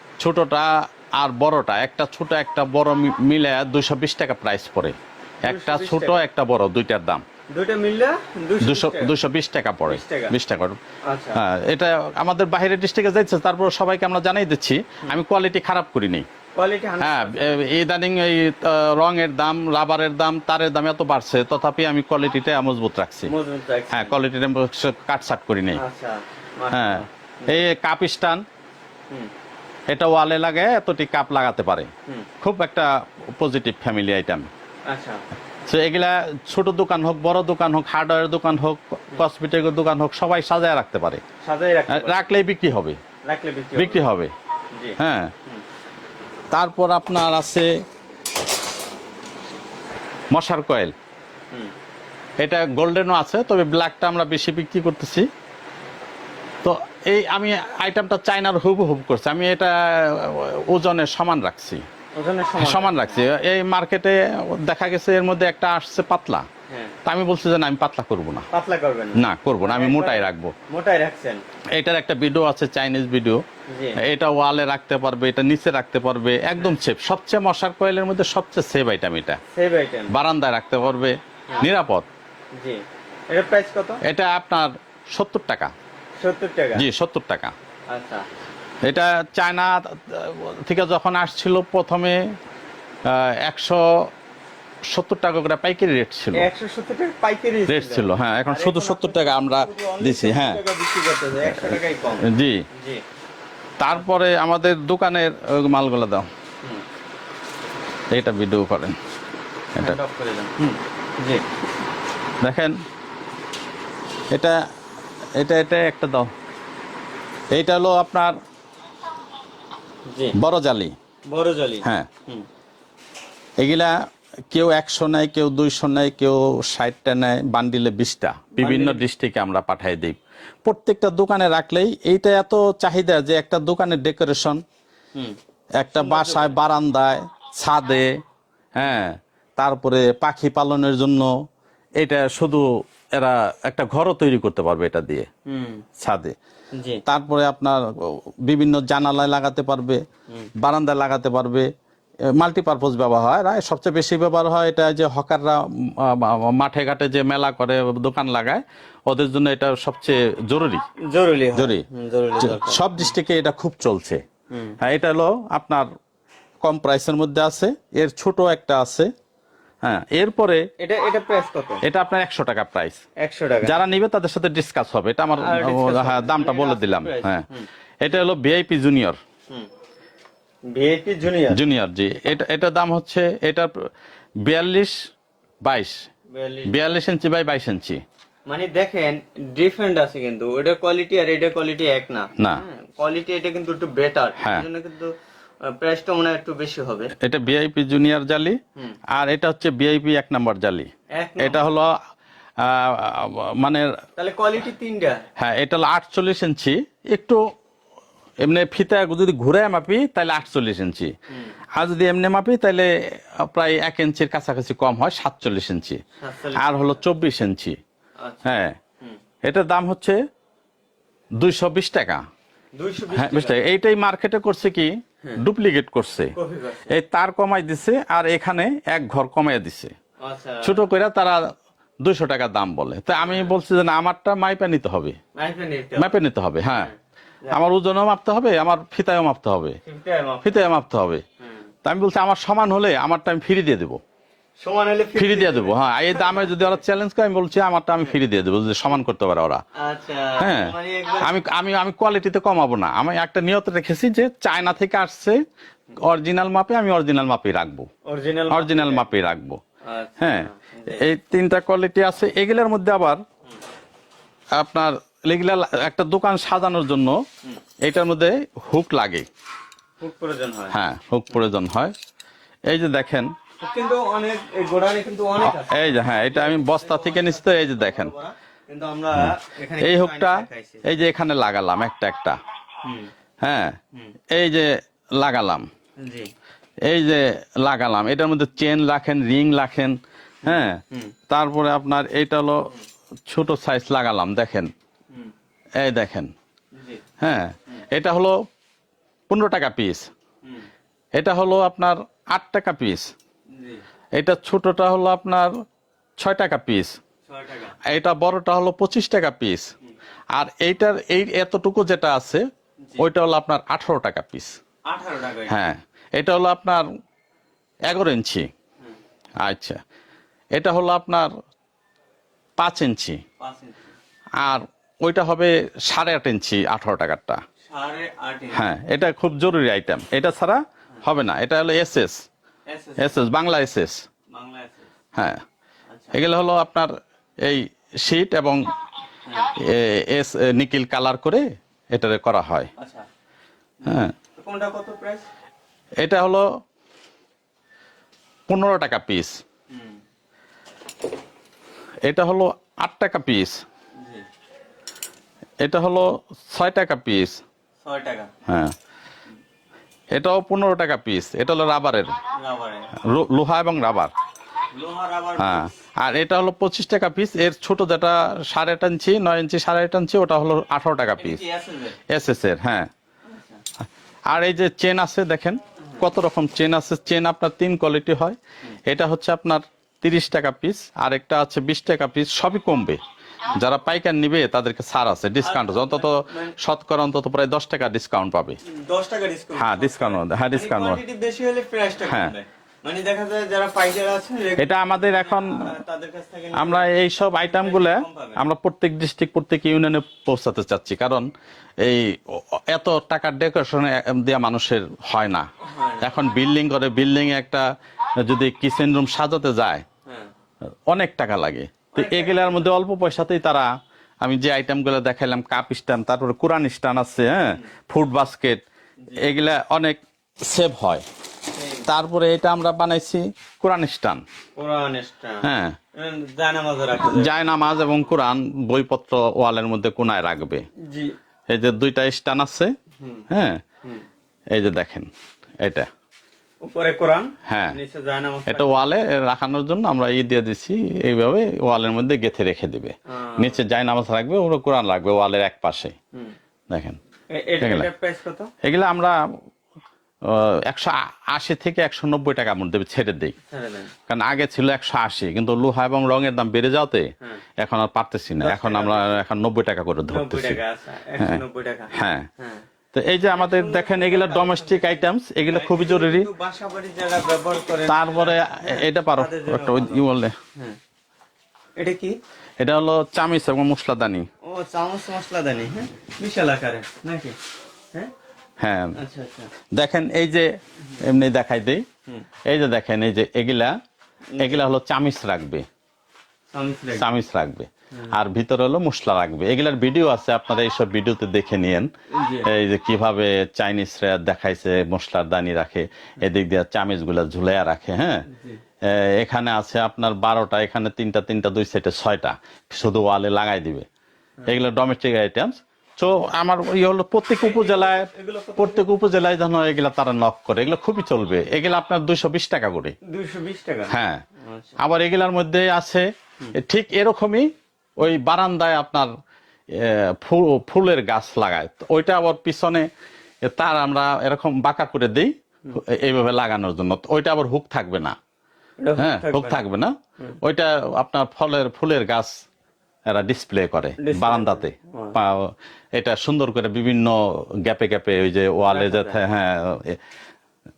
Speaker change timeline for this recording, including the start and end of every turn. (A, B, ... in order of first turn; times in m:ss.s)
0:00.2-0:07.2 A
0:05.4-0:06.2 B
0:07.5-0:09.1 B
0:08.6-0:10.8 A
0:09.8-0:10.3 B
0:11.1-0:11.4 B
0:11.4-0:16.2 A
0:16.6-0:17.6 B
0:17.0-0:23.3 A
0:23.2-0:24.2 B
0:23.9-0:25.8 A
0:25.7-0:27.6 B
0:26.7-0:28.4 A
0:29.9-0:31.9 A
0:32.4-0:34.5 A
0:34.9-0:35.2 B
0:35.7-0:41.2 A
0:41.4-0:42.3 B
0:41.9-0:43.0 A
0:43.2-0:44.0 B
0:43.8-0:44.3 A
0:44.7-0:45.6 B
0:45.0-0:45.3 A
0:46.5-0:47.7 A
0:50.3-0:50.9 A
0:52.4-0:55.3 A
0:56.6-1:01.8 A
1:02.2-1:03.1 B
1:02.6-1:06.4 A
1:06.7-1:06.9 B
1:07.0-1:08.5 A
1:08.5-1:11.4 B
1:09.2-1:10.5 A
1:11.7-1:13.4 A
1:13.7-1:14.0 B
1:14.0-1:19.4 A
1:19.5-1:20.1 B
1:20.1-1:22.1 A
1:22.6-1:24.0 B
1:24.0-1:25.7 A
1:26.2-1:26.8 B
1:26.8-1:27.5 A
1:27.9-1:28.2 B
1:28.8-1:32.3 A
1:33.0-1:34.1 A
1:34.9-1:36.5 A
1:36.3-1:43.0 B
1:37.7-1:40.6 A
1:41.5-1:42.6 A
1:43.8-1:46.3 A
1:48.1-1:49.0 A
1:49.8-1:51.4 B
1:52.4-1:52.8 A
1:54.3-1:54.6 A
1:55.4-1:56.3 A
1:57.5-1:58.4 A
2:00.1-2:00.4 B
2:00.4-2:00.9 A
2:01.3-2:02.4 B
2:03.6-2:03.9 A
2:04.5-2:14.6 A
2:08.6-2:09.0 B
2:15.8-2:18.1 A
2:15.9-2:16.6 B
2:18.8-2:21.3 A
2:22.0-2:25.3 A
2:25.5-2:25.8 B
2:26.0-2:26.3 A
2:26.8-2:27.0 B
2:27.0-2:30.0 A
2:30.6-2:31.7 A
2:32.3-2:40.8 A
2:41.1-2:43.0 B
2:41.6-2:41.8 A
2:42.4-2:44.2 A
2:44.5-2:44.8 B
2:44.8-2:45.8 A
2:46.6-2:49.1 A
2:49.8-2:50.6 A
2:50.8-2:51.8 B
2:51.8-2:53.0 A
2:53.2-2:53.8 B
2:53.6-2:57.4 A
2:55.4-2:57.7 B
2:58.0-2:59.2 A
3:00.7-3:01.6 B
3:01.5-3:03.7 A
3:04.4-3:05.0 A
3:05.6-3:06.0 A
3:06.3-3:06.8 B
3:06.7-3:08.0 A
3:08.5-3:15.1 B
3:14.4-3:14.6 A
3:15.7-3:17.1 B
3:17.2-3:18.6 A
3:19.1-3:21.9 A
3:21.2-3:21.6 B
3:22.6-3:23.9 A
3:24.2-3:25.2 B
3:25.4-3:27.4 A
3:28.4-3:31.1 A
3:31.7-3:36.0 A
3:36.2-3:37.0 B
3:36.6-3:37.8 A
3:38.2-3:39.2 B
3:38.4-3:38.7 A
3:39.4-3:40.2 A
3:41.4-3:42.2 A
3:42.8-3:43.6 B
3:43.1-3:46.3 A
3:46.3-3:46.9 B
3:46.9-3:49.9 A
3:50.2-3:50.9 B
3:50.6-3:51.4 A
3:52.0-3:55.2 A
3:53.1-3:53.5 B
3:55.4-3:57.6 B
3:56.0-3:56.9 A
3:57.5-3:59.8 A
3:59.8-4:00.6 B
4:00.4-4:01.2 A
4:01.8-4:04.0 A
4:04.6-4:06.7 B
4:05.2-4:09.6 A
4:09.8-4:11.4 B
4:10.4-4:15.4 A
4:16.0-4:17.9 A
4:18.1-4:19.1 B
4:18.5-4:19.6 A
4:19.8-4:21.0 B
4:20.2-4:23.2 A
4:24.6-4:27.2 A
4:27.8-4:29.3 A
4:30.0-4:30.8 B
4:30.7-4:31.9 A
4:32.7-4:33.3 A
4:33.6-4:40.9 B
4:35.4-4:38.1 A
4:39.2-4:42.4 A
4:42.8-4:43.1 B
4:43.4-4:43.8 A
4:44.3-4:45.7 A
4:46.0-4:46.3 B
4:46.8-4:50.8 A
4:50.4-4:51.1 B
4:51.3-4:52.7 A
4:53.3-4:54.7 A
4:55.8-4:56.3 A
4:56.8-4:57.0 B
4:57.2-4:58.4 A
4:59.3-5:00.1 A
5:01.1-5:03.1 A
5:03.6-5:03.8 B
5:04.1-5:05.5 A
5:06.2-5:07.0 A
5:07.3-5:07.8 B
5:07.8-5:09.7 A
5:10.3-5:12.4 A
5:13.0-5:14.6 A
5:14.9-5:15.7 B
5:15.5-5:16.8 A
5:17.9-5:18.5 A
5:19.4-5:19.8 A
5:20.6-5:21.3 A
5:22.6-5:23.2 A
5:23.4-5:23.9 B
5:24.4-5:27.4 A
5:27.7-5:28.6 B
5:28.5-5:32.2 A
5:32.7-5:33.2 B
5:33.0-5:34.0 A
5:34.3-5:34.9 B
5:35.2-5:35.4 A
5:35.9-5:36.2 B
5:36.1-5:36.9 A
5:37.4-5:38.7 A
5:39.3-5:39.5 B
5:39.6-5:42.7 A
5:42.8-5:43.0 B
5:43.8-5:45.2 B
5:43.9-5:44.1 A
5:46.0-5:46.5 A
5:48.5-5:49.4 A
5:52.0-5:53.6 A
5:54.0-5:54.2 B
5:55.6-5:57.4 A
5:57.8-5:58.3 B
5:58.5-5:58.7 A
6:00.1-6:02.2 A
6:02.4-6:02.9 B
6:03.0-6:04.1 A
6:04.7-6:05.6 B
6:05.4-6:11.4 A
6:11.2-6:12.0 B
6:12.1-6:12.9 A
6:13.3-6:13.6 B
6:14.3-6:28.6 A
6:25.4-6:26.6 B
6:28.6-6:38.4 B
6:29.6-6:31.0 A
6:32.0-6:32.3 A
6:34.6-6:35.6 A
6:36.6-6:41.3 A
6:41.8-6:45.5 A
6:45.6-6:46.1 B
6:46.0-6:47.6 A
6:48.2-6:49.8 A
6:50.9-6:53.7 A
6:51.9-6:52.6 B
6:54.2-6:58.6 A
6:59.2-7:01.0 A
7:01.5-7:01.9 B
7:01.9-7:04.2 A
7:04.6-7:05.4 B
7:05.4-7:05.8 A
7:06.0-7:07.4 B
7:07.0-7:10.6 A
7:10.9-7:11.1 B
7:11.5-7:12.7 A
7:13.0-7:13.3 B
7:13.3-7:13.6 A
7:14.5-7:15.1 A
7:15.6-7:15.9 A
7:16.6-7:18.9 B
7:17.5-7:17.8 A
7:18.5-7:25.9 A
7:23.1-7:23.6 B
7:26.7-7:27.0 A
7:27.3-7:28.5 B
7:27.6-7:27.9 A
7:28.6-7:29.2 A
7:30.2-7:33.3 A
7:33.5-7:33.9 B
7:34.1-7:40.6 A
7:38.4-7:39.2 B
7:40.1-7:42.6 B
7:41.9-7:42.3 A
7:42.9-7:46.3 A
7:43.3-7:50.0 B
7:47.9-7:50.3 A
7:51.8-7:52.2 B
7:52.6-7:54.3 A
7:54.4-7:57.4 B
7:58.6-7:58.9 A
7:59.0-7:59.5 B
7:59.7-8:00.5 A
8:01.0-8:01.8 A
8:02.5-8:03.8 A
8:04.4-8:04.7 B
8:04.4-8:05.6 A
8:06.5-8:07.1 B
8:07.0-8:11.9 A
8:12.1-8:12.5 B
8:12.4-8:18.2 A
8:18.3-8:18.6 B
8:18.8-8:23.8 A
8:24.5-8:32.9 A
8:27.4-8:28.9 B
8:33.1-8:34.8 B
8:33.9-8:34.2 A
8:34.8-8:37.5 A
8:38.0-8:39.1 A
8:39.7-8:42.9 A
8:43.4-8:48.2 A
8:48.8-8:49.6 B
8:49.0-8:52.3 A
8:53.1-9:00.0 A
8:54.0-8:55.2 B
8:58.7-8:59.2 B